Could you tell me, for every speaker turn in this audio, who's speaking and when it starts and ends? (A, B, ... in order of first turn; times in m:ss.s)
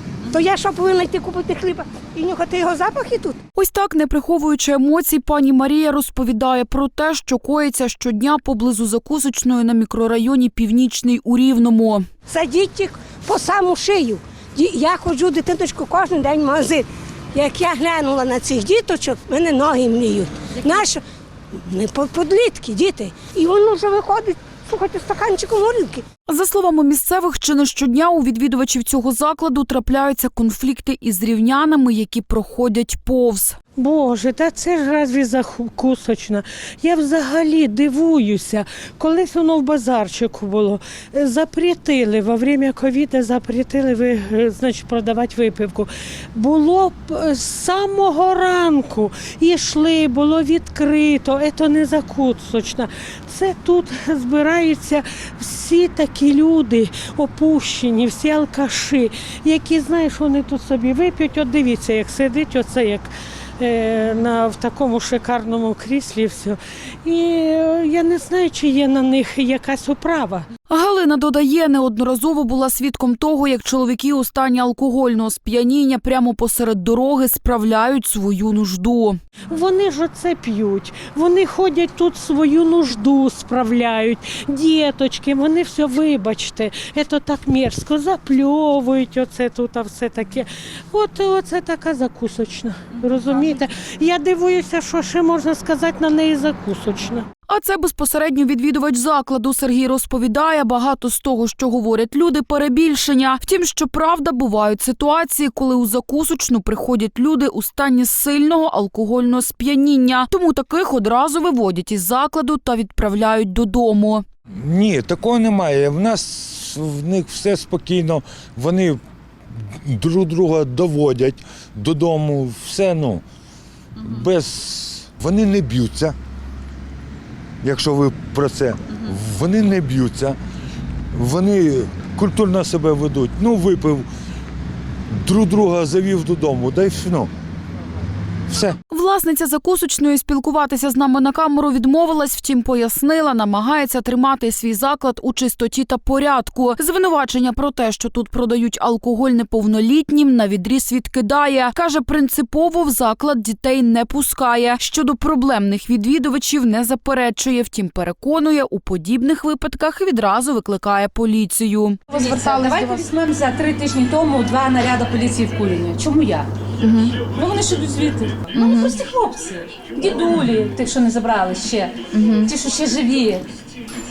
0:00.3-0:03.4 A
0:03.6-0:12.0 B
0:12.3-0:21.0 A
0:21.5-0:26.0 A
0:26.3-0:33.6 B
0:33.8-1:10.5 C
1:10.7-1:19.2 B
1:19.5-1:37.3 C
1:37.5-1:54.2 B
1:54.5-1:59.0 D
1:59.6-2:03.2 D
2:04.0-2:06.2 D
2:07.6-2:10.4 D
2:11.1-2:14.1 D
2:15.2-2:17.3 D
2:18.5-2:18.8 D
2:18.9-2:43.0 B
2:42.1-2:46.5 E
2:46.8-2:47.2 B
2:47.2-2:53.5 E
2:48.5-2:49.0 B
2:52.1-2:52.5 B